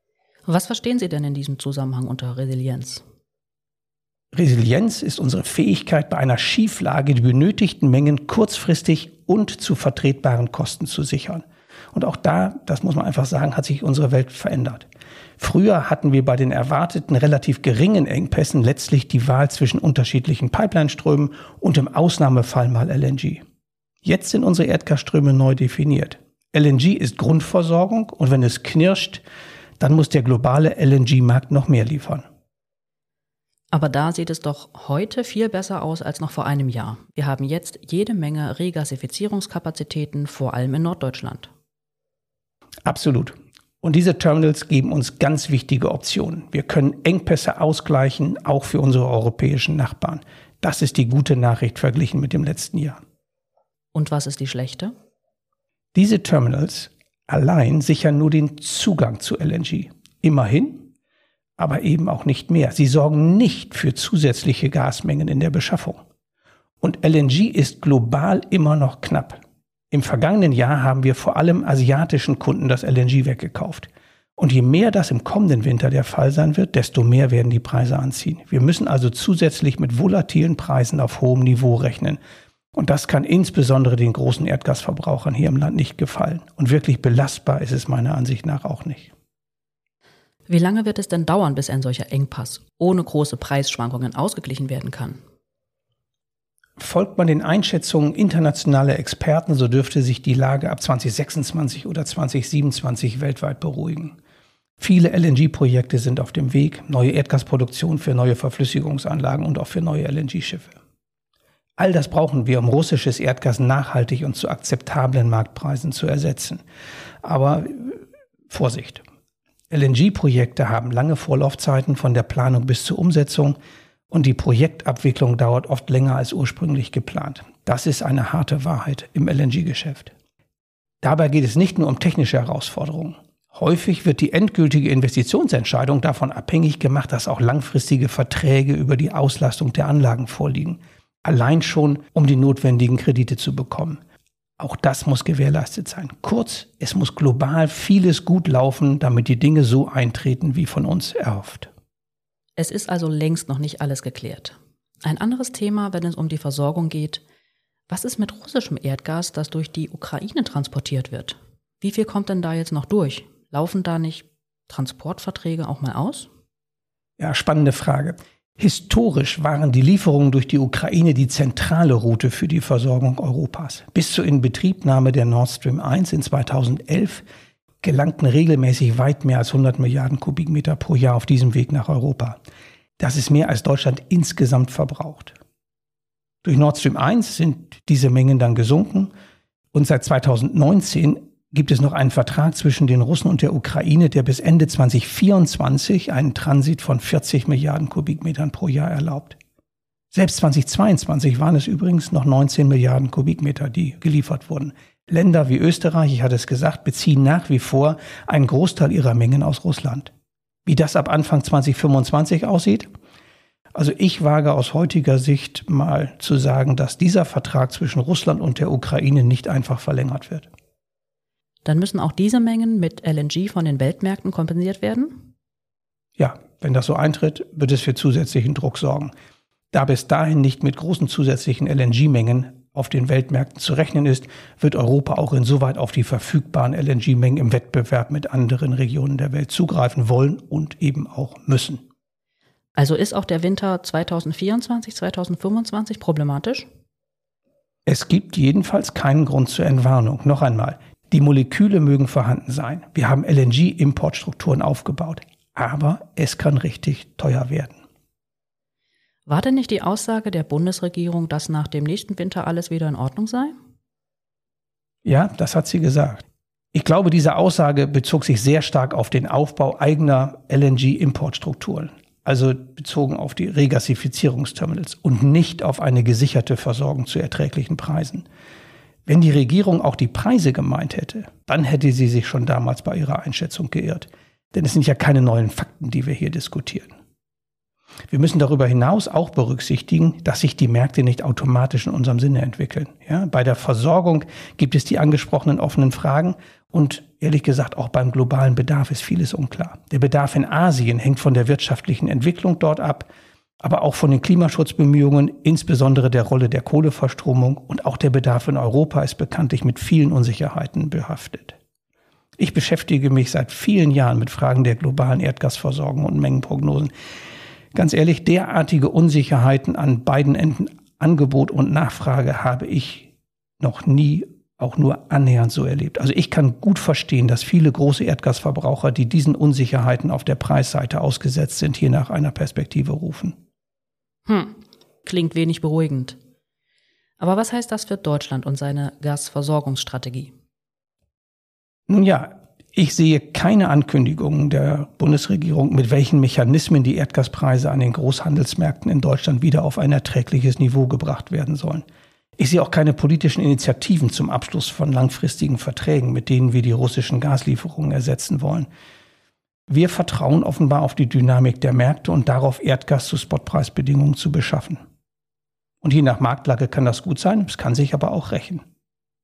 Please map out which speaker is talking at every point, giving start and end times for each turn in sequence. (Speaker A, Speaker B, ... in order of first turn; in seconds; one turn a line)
Speaker A: 0.5-3.0
Speaker B: 4.3-23.4
Speaker B: 24.0-29.2
Speaker B: 29.8-32.2
Speaker A: 33.7-41.5
Speaker B: 42.9-53.0
Speaker A: 53.9-54.9
Speaker B: 55.9-60.9
Speaker B: 61.6-66.0
Speaker B: 66.8-82.2
Speaker B: 82.7-89.1
Speaker A: 90.5-95.2
Speaker B: 96.8-104.2
Speaker B: 104.8-110.8
Speaker B: 111.8-116.6
Speaker B: 117.2-119.0
Speaker B: 119.7-123.6
Speaker B: 124.1-130.1
Speaker B: 131.0-144.0
Speaker B: 144.6-151.7
Speaker A: 152.6-157.2
Speaker A: 157.9-166.3
Speaker B: 167.2-177.2
Speaker B: 177.8-182.4
Speaker B: 183.0-185.3
Speaker B: 186.4-189.1
Speaker B: 189.7-199.4
Speaker B: 200.1-210.1
Speaker B: 210.7-212.9
Speaker B: 213.7-220.5
Speaker A: 221.7-225.3
Speaker B: 226.2-229.1
Speaker B: 229.7-241.8
Speaker A: 242.8-246.7
Speaker B: 247.9-257.8
Speaker A: 259.3-263.6
Speaker B: 265.0-266.2
Speaker B: 266.7-278.3
Speaker B: 279.1-286.9
Speaker B: 288.1-303.1
Speaker B: 303.6-311.6
Speaker B: 312.4-316.9
Speaker B: 317.7-333.4
Speaker A: 334.3-336.2
Speaker A: 337.2-340.3
Speaker B: 341.9-351.9
Speaker B: 352.4-358.7
Speaker B: 359.7-364.8
Speaker B: 365.8-368.6